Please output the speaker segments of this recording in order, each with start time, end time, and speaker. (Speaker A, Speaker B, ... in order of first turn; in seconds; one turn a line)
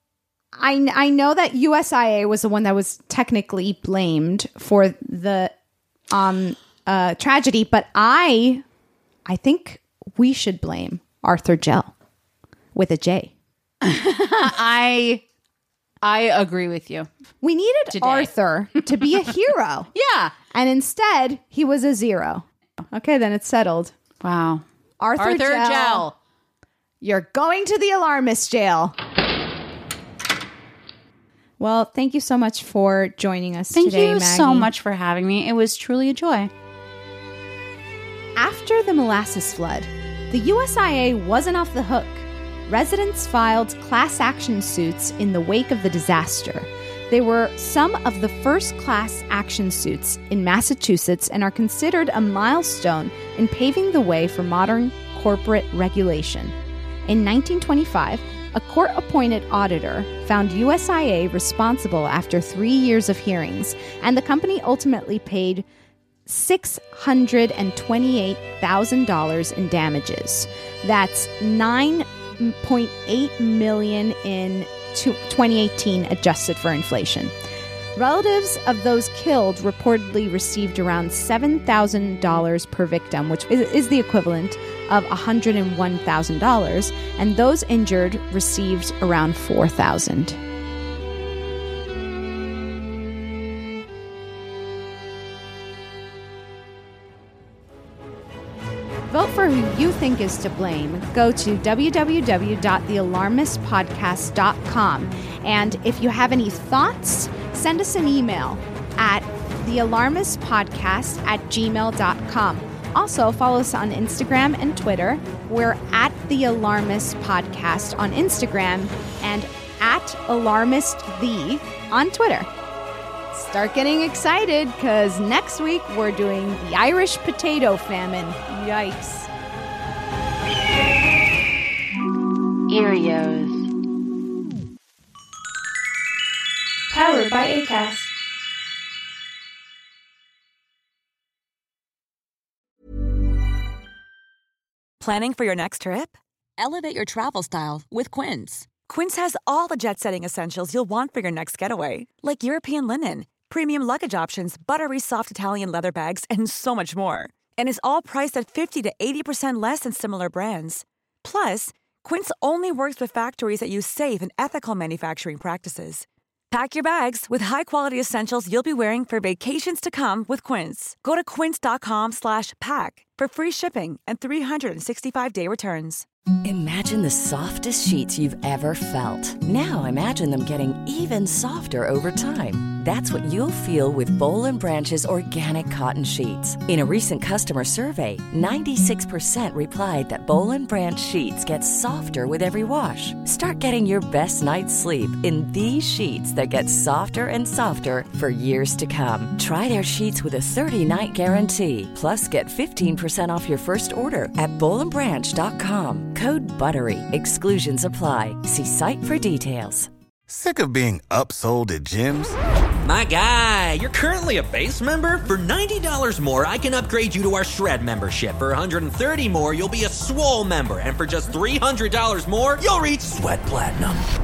Speaker A: 0.6-5.5
Speaker A: 6.1-8.6
Speaker A: 9.3-11.9
Speaker A: 12.8-13.3
Speaker B: 13.8-15.2
Speaker B: 16.0-17.1
Speaker A: 17.4-19.9
Speaker B: 17.9-18.3
Speaker B: 19.9-20.4
Speaker A: 20.5-23.9
Speaker B: 24.2-24.6
Speaker A: 25.0-26.1
Speaker B: 25.2-26.1
Speaker A: 27.0-28.9
Speaker A: 31.6-34.7
Speaker B: 33.7-36.5
Speaker A: 38.4-56.5
Speaker A: 57.1-65.7
Speaker A: 66.3-77.3
Speaker A: 78.0-90.4
Speaker A: 99.1-122.5
Speaker A: 123.3-129.3
Speaker C: 132.7-133.7
Speaker C: 136.9-138.1
Speaker C: 145.0-176.1
Speaker D: 176.4-209.9
Speaker E: 210.3-212.4
Speaker F: 212.8-224.0